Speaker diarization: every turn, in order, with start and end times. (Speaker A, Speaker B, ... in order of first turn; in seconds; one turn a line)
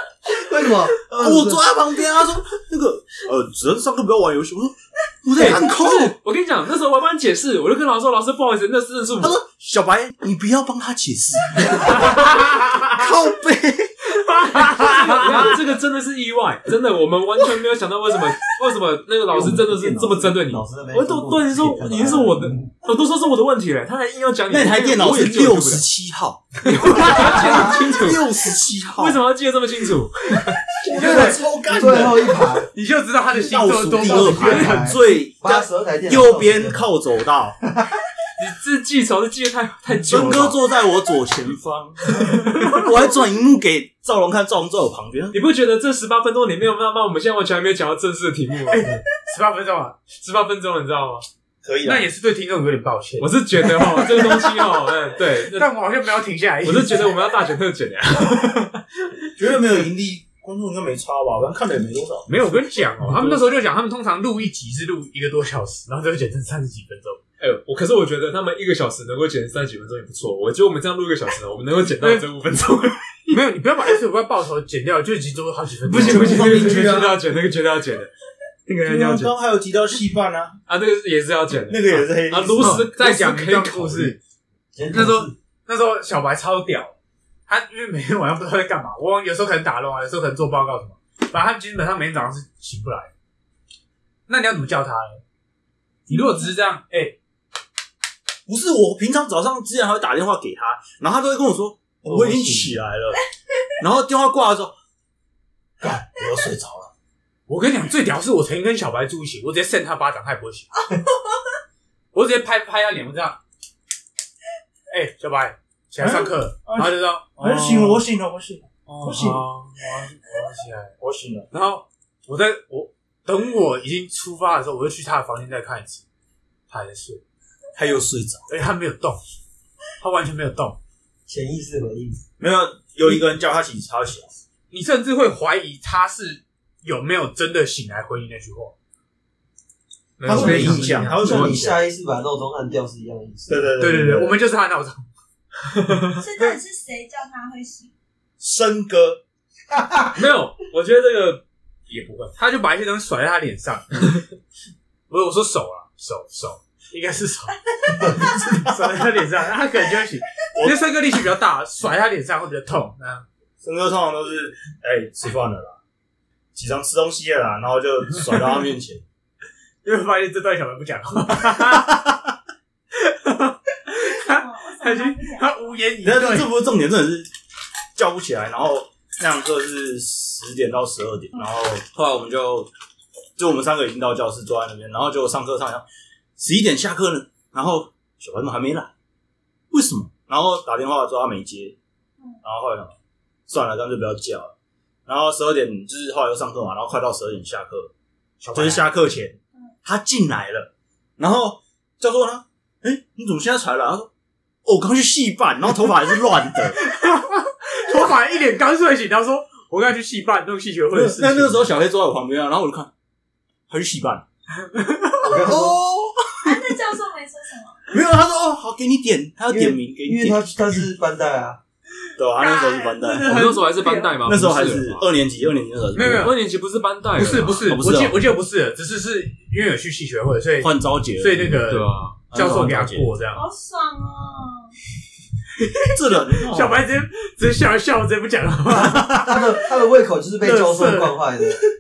Speaker A: 0.3-1.6
Speaker B: 0.9-6.1
Speaker C: 5.3-9.4
Speaker B: 9.2-15.5
Speaker D: 11.9-12.7
Speaker D: 14.4-15.5
Speaker C: 14.7-25.9
Speaker A: 19.3-22.7
Speaker B: 24.5-29.2
Speaker C: 26.6-28.3
Speaker A: 27.4-27.7
Speaker C: 28.9-30.6
Speaker B: 30.8-32.4
Speaker D: 30.9-31.4
Speaker A: 30.9-32.7
Speaker D: 32.7-34.9
Speaker B: 33.4-37.6
Speaker A: 33.9-36.9
Speaker C: 38.4-40.6
Speaker B: 40.0-45.4
Speaker C: 45.3-48.9
Speaker D: 48.7-50.0
Speaker C: 50.1-51.2
Speaker B: 51.6-52.1
Speaker D: 51.8-54.4
Speaker C: 53.2-55.7
Speaker D: 55.5-57.1
Speaker C: 56.6-58.8
Speaker B: 59.4-62.3
Speaker D: 62.3-67.2
Speaker C: 63.0-63.5
Speaker C: 67.4-73.4
Speaker D: 72.0-72.3
Speaker D: 73.3-77.0
Speaker B: 75.9-77.2
Speaker C: 75.9-78.1
Speaker C: 78.7-79.3
Speaker B: 78.8-80.6
Speaker C: 80.7-84.2
Speaker B: 81.7-82.9
Speaker D: 82.4-84.2
Speaker A: 84.7-85.3
Speaker D: 84.9-86.9
Speaker D: 87.5-93.1
Speaker D: 94.3-95.2
Speaker D: 96.1-97.2
Speaker B: 98.5-103.2
Speaker D: 102.0-102.8
Speaker B: 103.8-104.7
Speaker B: 105.8-106.9
Speaker D: 107.5-110.7
Speaker D: 112.1-113.4
Speaker D: 114.9-118.0
Speaker B: 116.0-119.4
Speaker D: 118.9-120.9
Speaker B: 121.0-121.5
Speaker D: 121.5-126.0
Speaker D: 126.7-127.2
Speaker B: 127.7-128.5
Speaker D: 128.5-129.2
Speaker D: 130.0-130.8
Speaker A: 131.3-132.2
Speaker B: 132.4-134.3
Speaker D: 134.7-138.7
Speaker C: 140.2-141.6
Speaker B: 140.2-141.8
Speaker A: 140.3-144.3
Speaker B: 143.5-144.3
Speaker D: 143.8-145.0
Speaker C: 145.7-146.1
Speaker E: 146.2-147.9
Speaker B: 148.4-149.2
Speaker A: 149.7-150.1
Speaker C: 150.1-152.3
Speaker D: 152.4-154.2
Speaker D: 155.1-163.2
Speaker B: 158.3-158.7
Speaker B: 163.6-165.8
Speaker B: 166.5-169.0
Speaker D: 169.8-172.0
Speaker B: 171.6-172.1
Speaker D: 173.0-176.5
Speaker E: 174.1-175.6
Speaker B: 176.0-177.3
Speaker B: 177.9-182.7
Speaker B: 183.4-185.8
Speaker B: 186.4-188.9
Speaker B: 189.7-191.8
Speaker B: 192.4-192.9
Speaker B: 193.5-194.5
Speaker B: 195.1-197.9
Speaker D: 198.4-198.9
Speaker B: 198.5-204.1
Speaker B: 204.6-206.8
Speaker D: 206.7-211.7
Speaker B: 210.9-212.9
Speaker B: 213.7-214.2
Speaker D: 214.6-215.5
Speaker A: 215.2-215.8
Speaker B: 215.3-216.7
Speaker E: 216.4-217.8
Speaker B: 217.9-220.4
Speaker A: 219.5-221.6
Speaker B: 222.2-223.3
Speaker D: 222.4-224.2
Speaker C: 223.2-225.0
Speaker B: 224.2-226.3
Speaker D: 225.9-226.3
Speaker C: 226.0-227.6
Speaker D: 227.2-233.4
Speaker B: 227.4-228.2
Speaker B: 230.6-231.6
Speaker C: 231.7-232.2
Speaker B: 232.3-233.1
Speaker E: 233.3-234.7
Speaker B: 235.9-236.8
Speaker D: 236.4-239.5
Speaker A: 238.7-241.6
Speaker D: 240.4-241.4